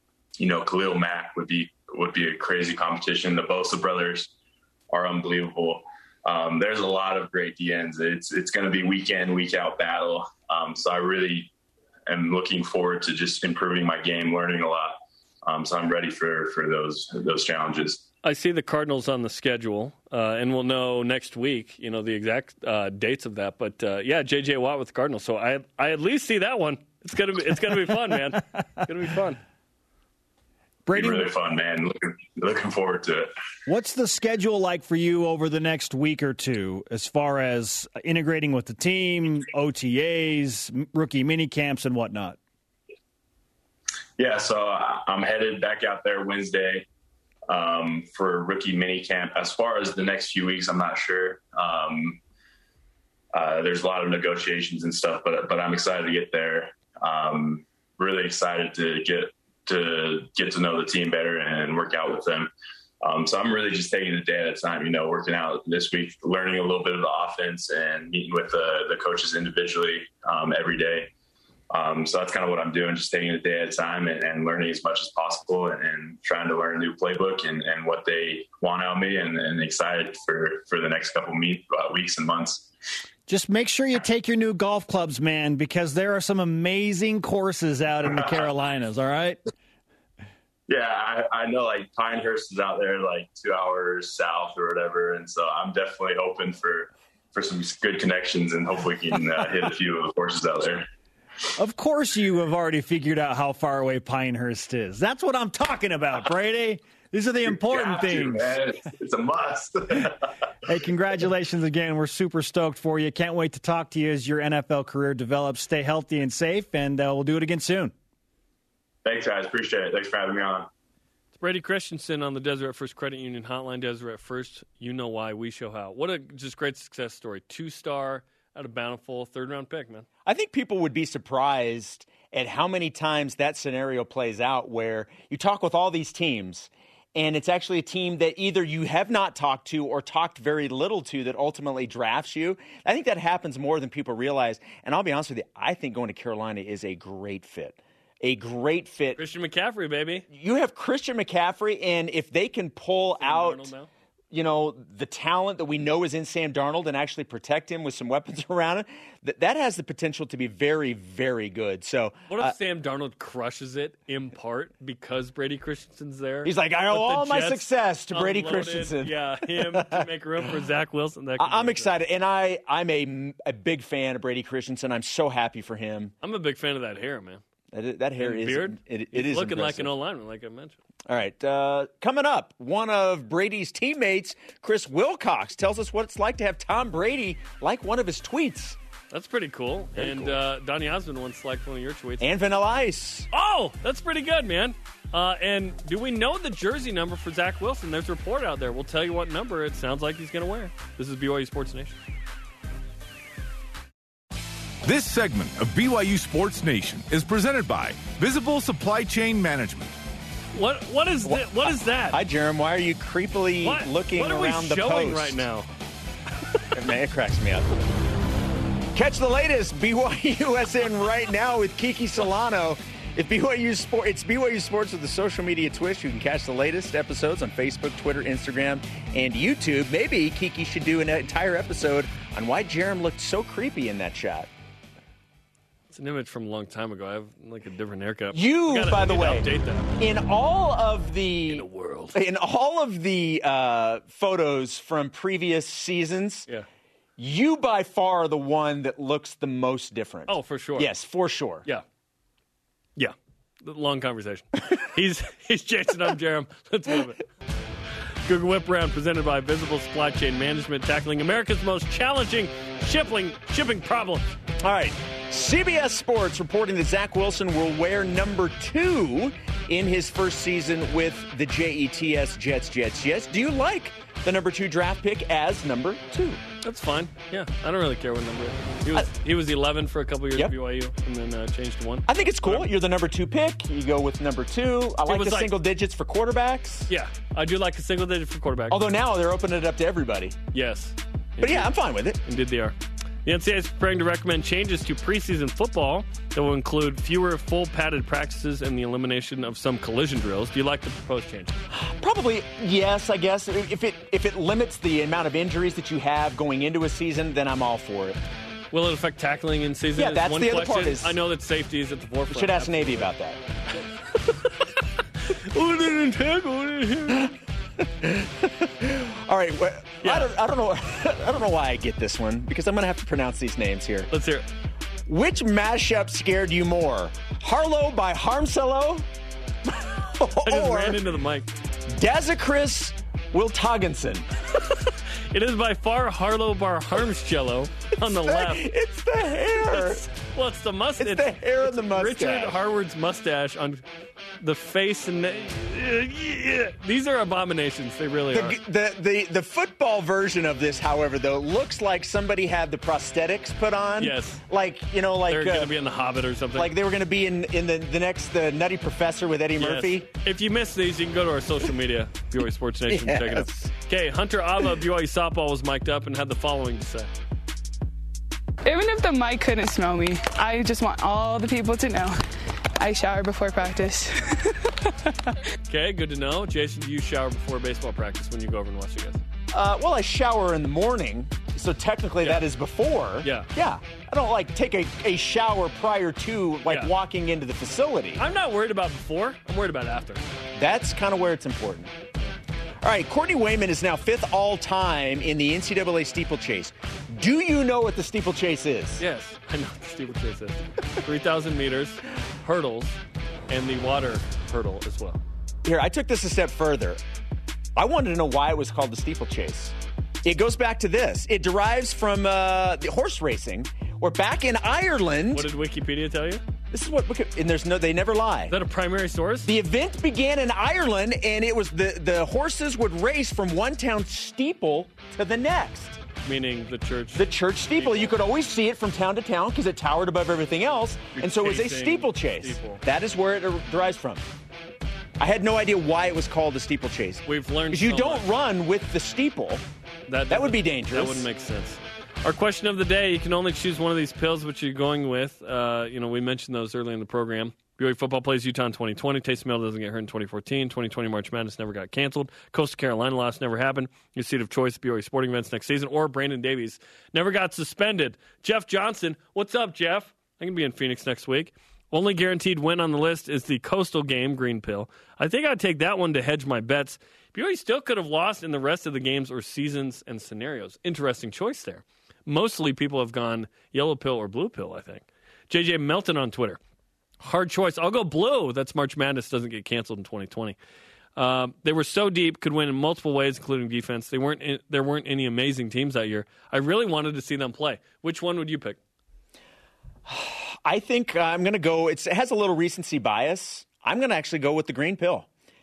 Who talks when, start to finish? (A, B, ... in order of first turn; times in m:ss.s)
0:00.4-0:04.3 A
0:04.9-0:11.5 A
0:12.1-0:18.0 A
0:18.2-0:29.4 B
0:30.8-0:31.3 C
0:30.9-0:33.3 A
0:33.7-0:42.4 C
0:44.2-0:46.8 A
0:47.5-0:52.2 A
0:53.3-1:02.5 A
1:03.0-1:11.1 A
1:11.7-1:22.7 A
1:23.3-1:29.4 C
1:30.7-1:40.8 A
1:41.6-1:48.6 C
1:47.5-1:50.3 A
1:50.6-1:57.9 C
1:59.0-2:00.7 A
2:01.4-2:10.1 B
2:10.2-2:29.2 D
2:29.2-2:30.2 B
2:30.3-2:33.7 D
2:33.2-2:33.9 B
2:34.3-2:42.5 D
2:42.3-2:51.9 B
2:46.4-2:50.1 D
2:51.4-2:56.1 D
2:56.2-2:57.4 B
2:57.7-2:59.9 D
2:58.2-3:00.8 B
3:01.1-3:08.8 D
3:09.1-3:12.3 B
3:10.0-3:10.4 D
3:12.2-3:13.3 D
3:13.3-3:21.9 B
3:24.8-3:29.9 E
3:30.5-3:32.2 B
3:31.2-3:35.4 D
3:33.6-3:35.7 B
3:36.7-3:37.7 D
3:38.9-3:54.5 D
3:55.9-4:00.0 B
3:58.3-3:59.4 D
4:00.0-4:06.5 D
4:01.5-4:02.1 B
4:07.2-4:11.6 D
4:10.3-4:10.9 B
4:13.0-4:17.2 B
4:18.2-4:24.3 B
4:24.6-4:36.4 D
4:36.6-4:42.7 B
4:42.1-4:46.9 D
4:45.0-4:45.6 B
4:46.9-4:48.9 B
4:48.7-4:50.4 D
4:50.5-4:51.7 B
4:51.4-4:52.2 D
4:52.2-5:01.5 B
5:01.7-5:08.2 D
5:08.7-5:13.1 B
5:10.0-5:11.2 D
5:12.3-5:13.4 D
5:15.2-5:17.3 B
5:17.8-5:24.1 D
5:20.0-5:20.3 B
5:24.1-5:24.4 B
5:25.0-5:29.0 D
5:29.6-5:31.0 D
5:30.4-5:31.5 B
5:31.9-5:34.3 D
5:35.3-5:38.7 B
5:38.0-5:40.0 D
5:39.6-5:43.8 B
5:41.0-5:42.6 D
5:44.4-5:48.6 B
5:48.3-5:55.7 D
5:54.0-5:54.4 B
5:55.3-5:56.7 B
5:56.5-6:00.1 D
5:59.6-6:07.1 B
6:02.9-6:03.5 D
6:08.6-6:15.4 F
6:15.7-6:19.2 B
6:19.5-6:28.2 D
6:23.2-6:23.5 B
6:28.2-6:30.2 B
6:30.6-6:31.9 D
6:32.8-6:39.0 D
6:39.0-6:43.0 B
6:43.5-6:45.2 B
6:45.6-6:47.0 D
6:47.8-6:55.5 D
6:55.3-6:56.4 B
6:56.7-6:58.6 D
6:58.5-6:59.5 B
6:59.4-7:06.0 D
7:06.2-7:08.2 B
7:07.1-7:14.2 D
7:11.1-7:12.8 B
7:15.2-7:19.6 D
7:17.2-7:18.3 B
7:20.1-7:56.6 B
7:20.3-7:21.3 D
7:57.2-8:00.6 B
8:01.2-8:08.8 B
8:10.0-8:15.3 D